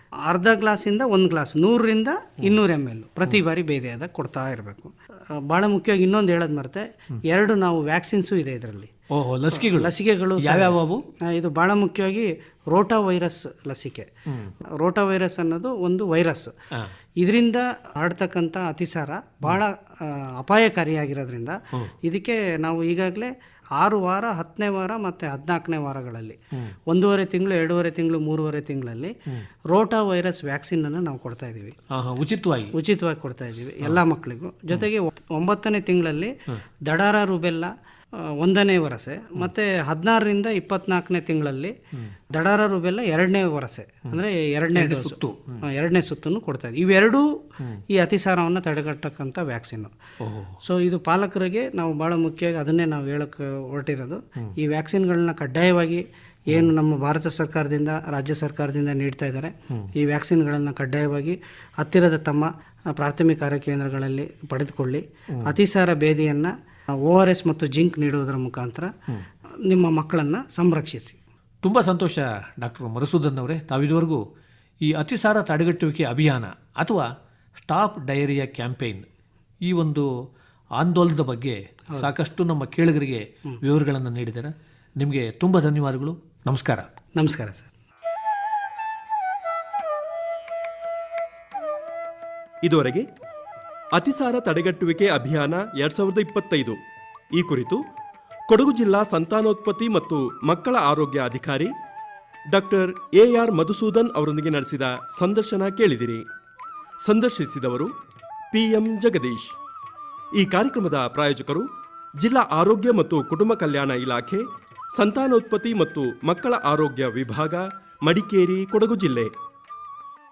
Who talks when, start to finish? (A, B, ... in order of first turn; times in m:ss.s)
0:00.3-0:08.9 A
0:09.1-0:11.0 B
0:09.5-0:14.1 A
0:14.8-0:16.5 A
0:17.2-0:26.4 A
0:26.9-0:29.1 A
0:29.7-0:31.8 A
0:31.9-0:32.7 B
0:32.7-0:36.3 A
0:36.8-0:37.7 A
0:38.2-0:41.7 A
0:42.3-0:47.3 A
0:44.7-0:45.6 B
0:47.9-0:50.0 A
0:50.2-0:50.6 B
0:50.6-1:06.5 A
1:07.0-1:08.9 A
1:09.6-1:11.2 A
1:11.6-1:14.2 B
1:14.8-1:19.0 B
1:19.6-1:20.1 B
1:20.8-1:26.9 B
1:27.2-1:27.7 A
1:32.6-1:33.0 C
1:33.9-1:36.8 C
1:37.3-1:37.8 C
1:38.5-1:41.7 C
1:42.5-1:46.2 C
1:47.0-1:47.9 C
1:48.5-1:49.6 C
1:50.4-1:51.6 C
1:52.2-1:54.4 C
1:54.9-1:59.3 C